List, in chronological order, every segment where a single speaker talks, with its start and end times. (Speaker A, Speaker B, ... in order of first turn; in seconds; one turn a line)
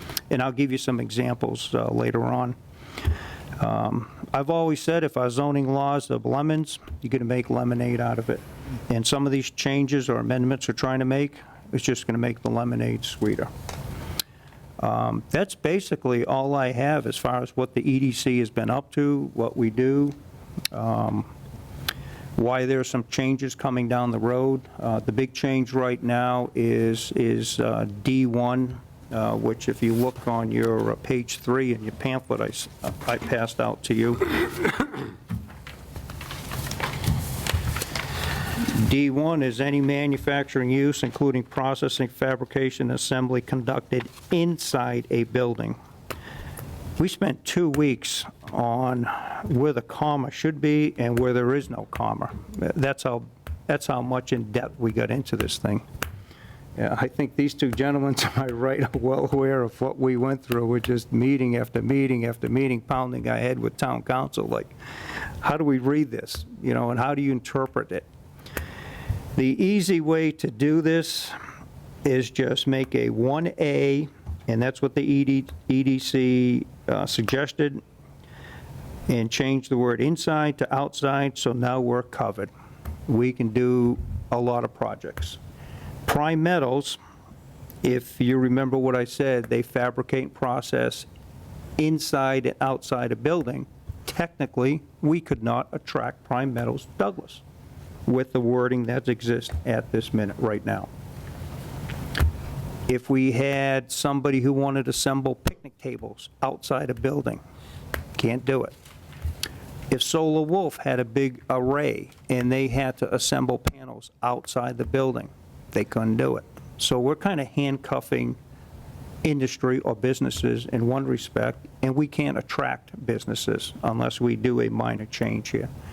Speaker A: 0.3-2.5
Speaker A: 3.6-13.5
Speaker A: 14.8-20.1
Speaker A: 20.7-21.3
Speaker A: 22.4-34.2
Speaker A: 38.6-45.8
Speaker A: 47.0-55.8
Speaker A: 56.8-64.8
Speaker A: 65.4-68.1
Speaker A: 69.3-71.3
Speaker A: 72.0-77.8
Speaker A: 79.1-82.5
Speaker A: 83.1-85.4
Speaker A: 86.0-87.0
Speaker A: 87.8-91.1
Speaker A: 91.8-97.4
Speaker A: 98.0-100.9
Speaker A: 102.9-107.4
Speaker A: 108.1-108.7
Speaker A: 109.9-118.4
Speaker A: 119.2-125.7